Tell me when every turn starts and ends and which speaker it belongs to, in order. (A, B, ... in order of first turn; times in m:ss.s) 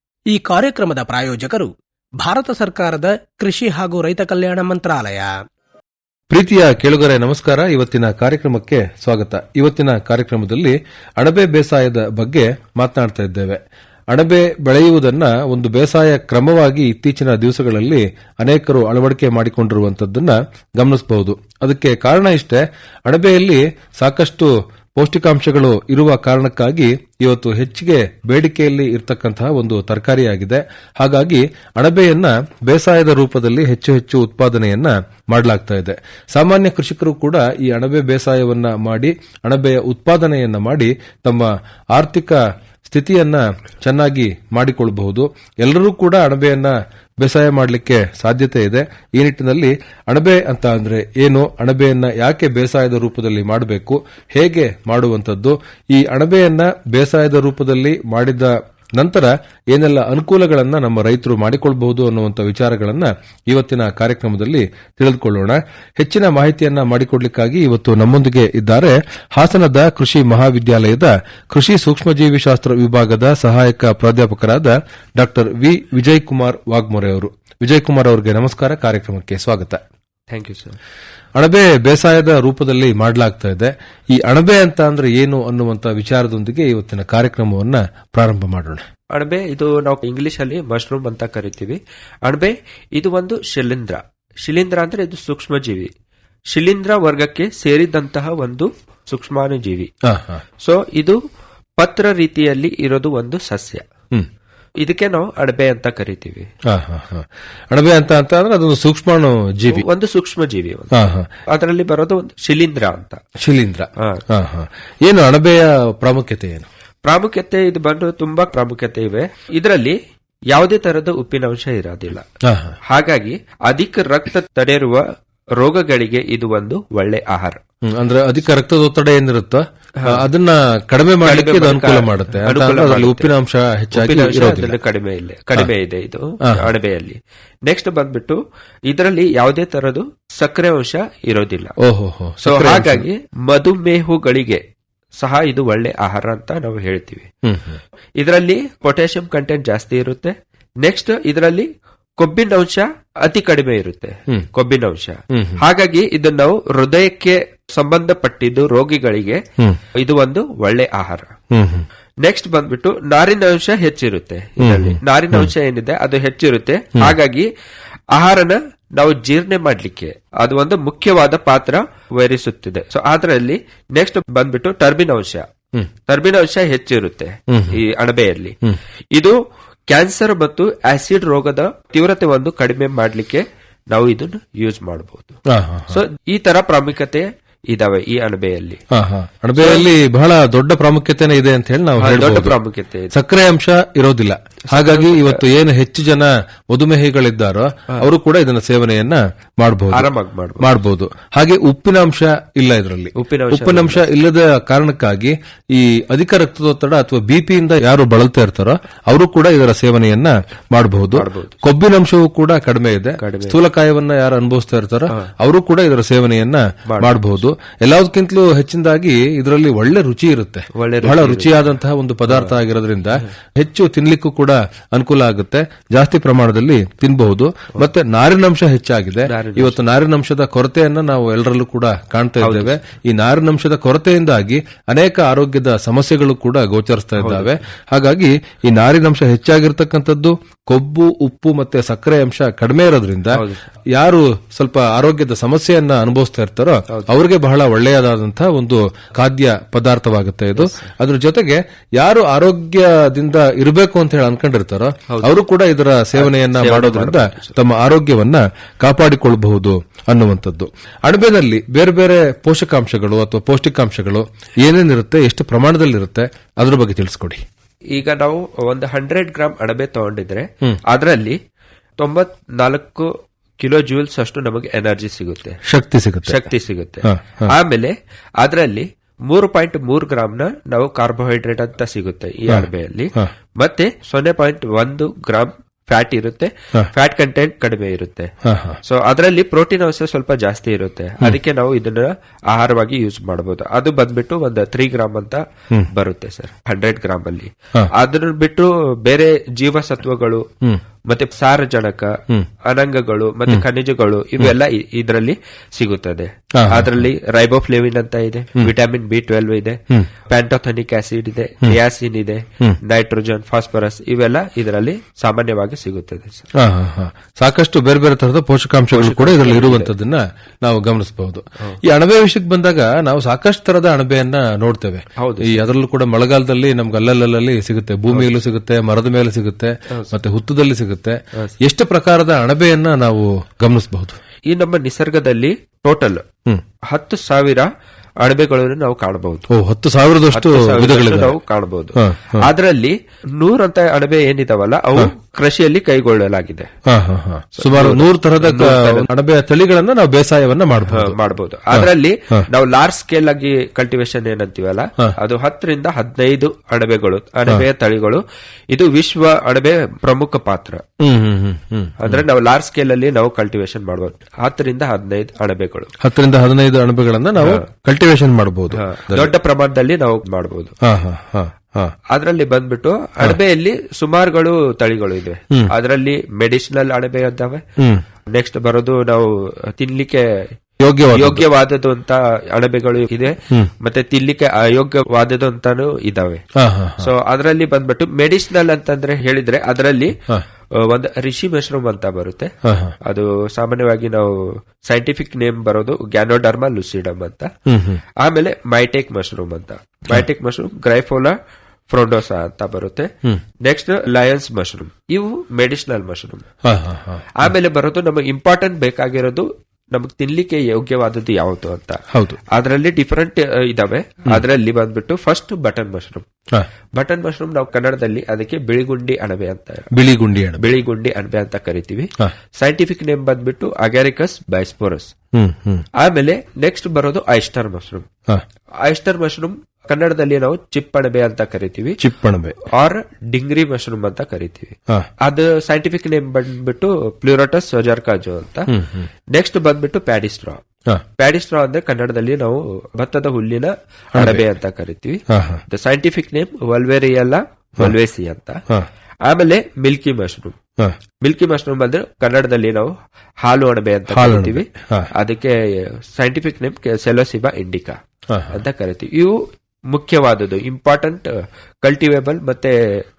0:00.3-0:05.4 A
0:06.3-1:19.8 B
1:20.3-1:20.8 C
1:21.4-1:28.9 B
1:29.1-1:35.9 C
1:36.5-1:39.9 C
1:40.0-1:40.4 B
1:40.6-1:41.2 C
1:41.8-1:43.9 C
1:44.8-1:46.5 C
1:46.6-1:49.8 B
1:49.7-1:53.2 C
1:50.9-1:51.3 B
1:53.4-1:56.7 B
1:54.0-1:54.2 C
1:57.0-2:00.0 C
2:00.5-2:02.2 C
2:02.4-2:02.8 B
2:02.9-2:05.0 C
2:05.6-2:07.6 C
2:07.8-2:14.8 B
2:10.0-2:10.3 C
2:11.2-2:13.3 C
2:13.9-2:21.7 C
2:16.4-2:16.7 B
2:21.8-2:23.0 B
2:22.4-2:24.6 C
2:25.2-2:27.3 C
2:27.4-2:27.8 B
2:28.2-2:41.3 C
2:35.3-2:35.6 B
2:41.5-2:41.9 B
2:42.2-2:47.5 C
2:44.6-2:45.5 B
2:48.1-2:55.5 C
2:56.1-2:58.6 C
2:57.5-2:57.8 B
2:59.9-3:08.8 C
3:05.5-3:06.0 B
3:08.9-3:12.6 B
3:09.6-3:09.9 C
3:12.0-3:13.2 C
3:13.1-3:20.1 B
3:14.7-3:15.4 C
3:19.9-3:20.7 C
3:20.6-4:03.4 B
3:23.1-3:24.0 C
3:31.1-3:31.6 C
3:33.2-3:33.6 C
3:36.9-3:37.2 C
3:40.7-3:41.7 C
3:42.3-3:42.6 C
3:49.2-3:49.8 C
3:52.4-3:52.8 C
3:57.2-3:57.6 C
4:03.3-4:03.7 C
4:03.9-4:27.4 B
4:10.6-4:10.9 C
4:15.1-4:15.4 C
4:16.2-4:17.6 C
4:27.9-4:31.4 C
4:32.0-4:35.6 C
4:35.6-4:36.5 B
4:36.2-4:48.3 C
4:37.0-4:37.5 B
4:42.5-4:43.3 B
4:48.4-4:48.8 B
4:48.8-5:00.5 C
5:01.1-5:16.5 C
5:06.6-5:07.1 B
5:16.6-5:34.2 B
5:18.9-5:19.9 C
5:25.2-5:25.6 C
5:28.1-5:28.4 C
5:34.5-5:36.2 C
5:36.9-5:37.7 C
5:38.2-5:39.5 C
5:39.5-5:41.4 B
5:40.3-5:46.7 C
5:42.0-5:42.5 B
5:46.9-5:51.2 B
5:47.6-5:49.1 C
5:50.9-6:00.8 C
5:51.7-5:52.5 B
6:01.0-6:02.2 B
6:02.0-6:05.9 C
6:06.0-6:09.3 B
6:07.4-6:07.7 C
6:08.7-6:10.8 C
6:10.8-6:11.9 B
6:12.1-6:17.6 C
6:17.8-6:18.0 B
6:18.3-6:20.5 C
6:20.8-6:21.5 B
6:21.1-6:26.4 C
6:26.6-6:27.1 B
6:27.0-6:30.2 C
6:30.8-6:37.5 C
6:32.6-6:33.0 B
6:37.7-6:38.0 B
6:38.2-6:41.4 C
6:41.9-6:43.1 C
6:43.6-6:46.5 C
6:46.6-6:47.5 B
6:47.4-6:56.3 C
6:52.1-6:52.4 B
6:57.0-6:59.9 C
6:59.9-7:00.7 B
7:00.6-7:05.1 C
7:05.3-7:05.9 B
7:06.0-7:08.1 C
7:08.8-7:12.0 C
7:12.0-7:12.6 B
7:12.6-7:18.8 C
7:18.7-7:19.1 B
7:19.3-7:20.6 C
7:21.2-7:28.6 C
7:24.2-7:24.5 B
7:25.3-7:25.6 B
7:29.2-7:30.6 C
7:31.2-7:32.9 C
7:33.4-7:43.0 C
7:34.1-7:35.1 B
7:38.3-7:38.6 B